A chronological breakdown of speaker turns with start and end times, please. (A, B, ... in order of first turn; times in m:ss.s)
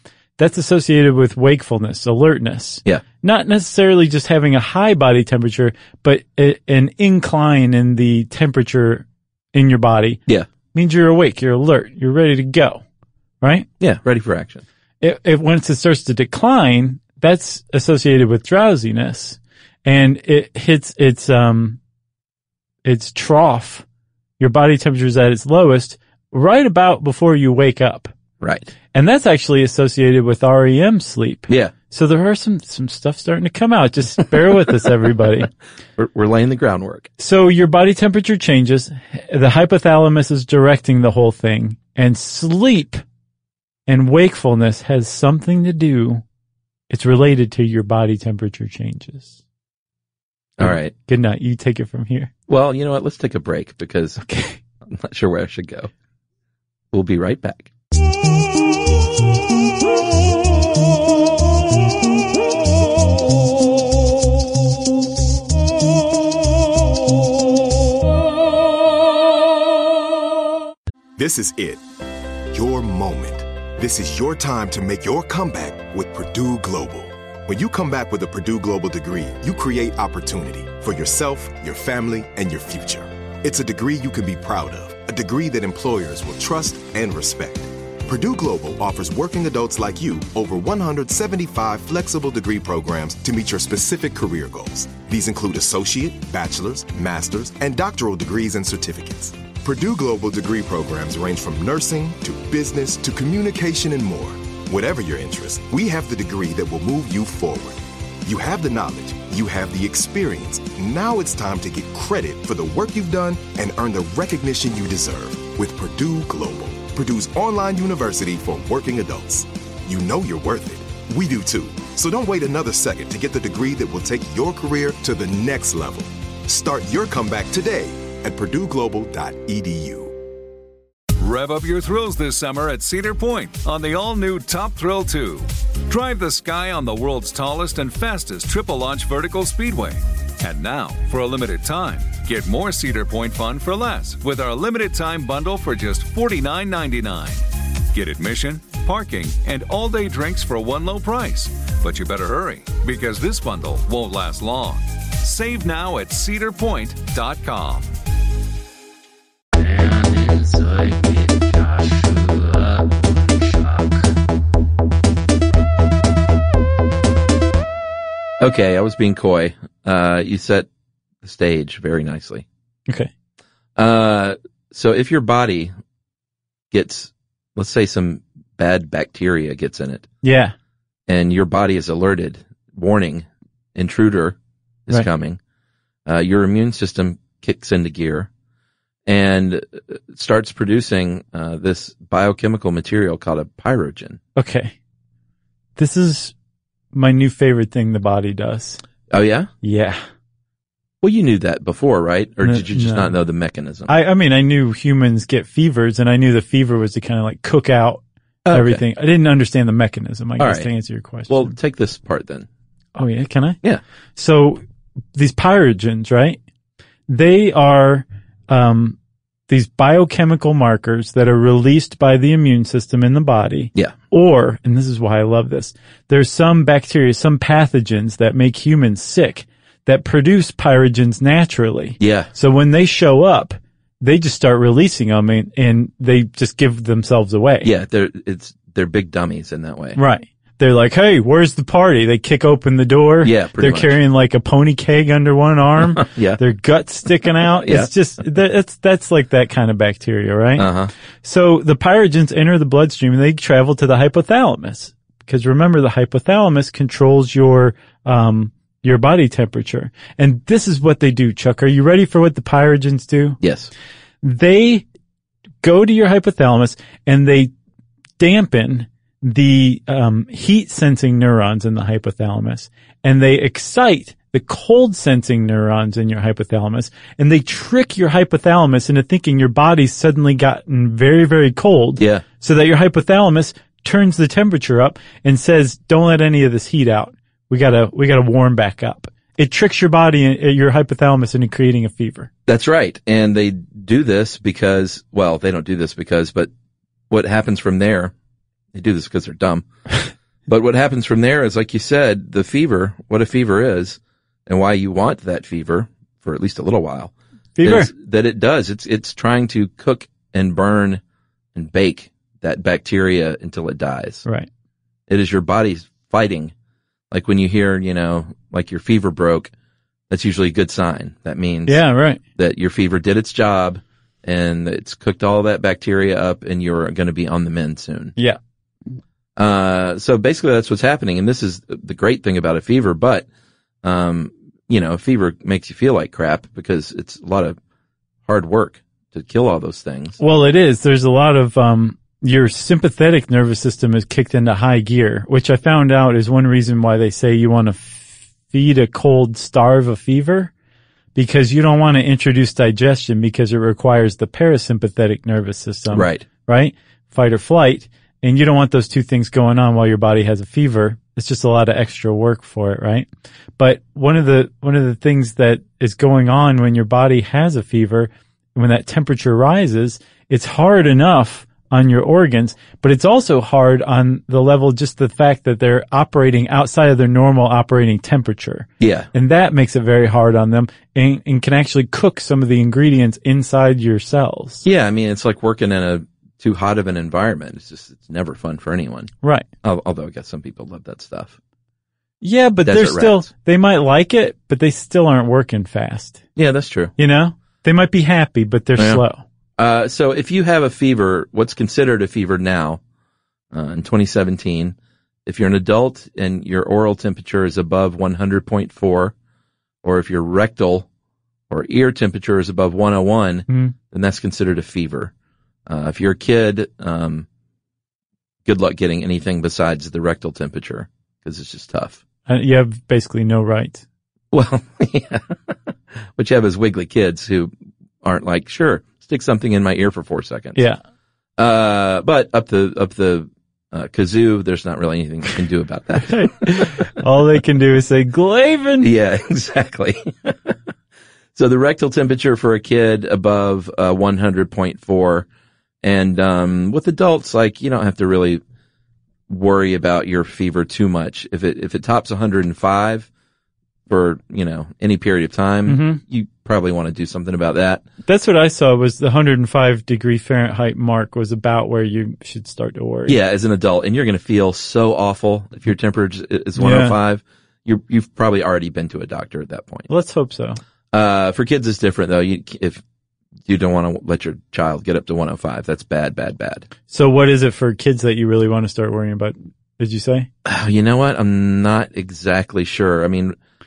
0:00.4-0:10.2 A
0:10.7-0:12.8 A
0:13.4-0:13.7 A
0:13.8-0:14.6 B
0:15.0-0:21.8 A
0:22.8-0:23.8 A
0:24.4-0:28.1 A
0:28.4-0:28.7 B
0:28.9-0:35.5 A
0:36.0-0:37.1 B
0:37.2-0:43.0 A
0:43.9-0:46.2 A
0:46.9-0:49.4 A
0:50.6-0:50.9 B
0:50.6-0:52.3 A
0:52.5-0:54.2 B
0:54.2-0:54.6 A
0:54.9-0:55.9 B
0:56.9-0:57.7 B
1:11.2-1:11.8 C
1:12.5-2:10.2 C
2:11.2-2:37.9 D
2:39.6-2:44.0 B
2:48.4-2:50.7 B
2:51.2-2:52.4 B
2:53.8-2:55.7 B
2:56.7-3:00.1 B
3:00.2-3:00.5 A
3:01.1-3:04.4 B
3:04.9-3:05.4 B
3:06.1-3:08.3 B
3:09.1-3:14.2 B
3:14.4-3:14.8 A
3:15.8-3:16.3 A
3:16.9-3:18.8 A
3:19.1-3:19.5 B
3:19.6-3:20.0 A
3:21.0-3:23.9 B
3:22.4-3:23.1 A
3:23.9-3:31.5 A
3:28.4-3:28.8 B
3:30.4-3:30.7 B
3:31.3-3:32.5 B
3:33.0-3:33.6 A
3:34.2-3:34.6 A
3:35.1-3:36.4 A
3:37.1-3:39.0 A
3:39.5-3:57.7 A
3:52.0-3:52.3 B
3:57.6-4:00.0 B
4:00.0-4:10.7 A
4:03.2-4:04.0 B
4:05.9-4:06.4 B
4:07.6-4:07.9 B
4:10.6-4:10.9 B
4:11.2-4:23.4 A
4:23.4-4:23.7 B
4:24.2-4:24.8 A
4:25.6-4:27.5 A
4:28.2-4:52.3 A
4:42.0-4:42.2 B
4:52.5-4:56.5 B
4:57.1-4:58.1 B
4:58.7-4:59.6 B
5:00.5-5:11.0 B
5:07.6-5:07.9 A
5:11.6-5:14.2 B
5:15.1-5:16.5 B
5:17.1-5:19.5 B
5:20.1-5:21.8 B
5:21.7-5:22.2 A
5:22.4-5:28.2 B
5:29.4-5:33.3 B
5:33.8-5:37.6 B
5:38.3-5:40.2 B
5:40.2-5:50.5 A
5:51.2-6:03.1 A
5:55.9-5:56.2 B
6:03.6-6:24.6 A
6:18.8-6:19.1 B
6:24.6-6:29.1 B
6:29.6-6:31.4 B
6:32.2-6:36.2 A
6:32.7-6:33.3 B
6:36.4-6:36.9 B
6:37.0-6:39.2 A
6:38.8-6:39.0 B
6:39.6-6:42.8 B
6:43.5-6:44.8 B
6:45.3-6:49.1 B
6:49.8-6:50.9 B
6:51.5-6:55.1 B
6:53.5-6:53.7 A
6:55.7-6:57.3 B
6:58.5-7:02.0 B
7:02.3-7:03.8 A
7:04.3-7:05.2 B
7:06.2-7:07.5 B
7:08.0-7:10.6 B
7:11.4-7:16.9 B
7:16.1-7:18.9 A
7:18.8-7:20.6 B
7:21.4-7:25.3 B
7:25.8-7:28.4 B
7:29.3-7:33.1 B
7:33.9-7:37.8 B
7:35.7-7:36.0 A
7:38.1-7:43.2 A
7:43.1-7:49.9 B
7:46.6-7:47.0 A
7:49.9-7:50.6 A
7:50.9-7:52.8 B
7:53.5-7:56.7 B
7:56.9-8:00.3 A
8:00.4-8:03.4 B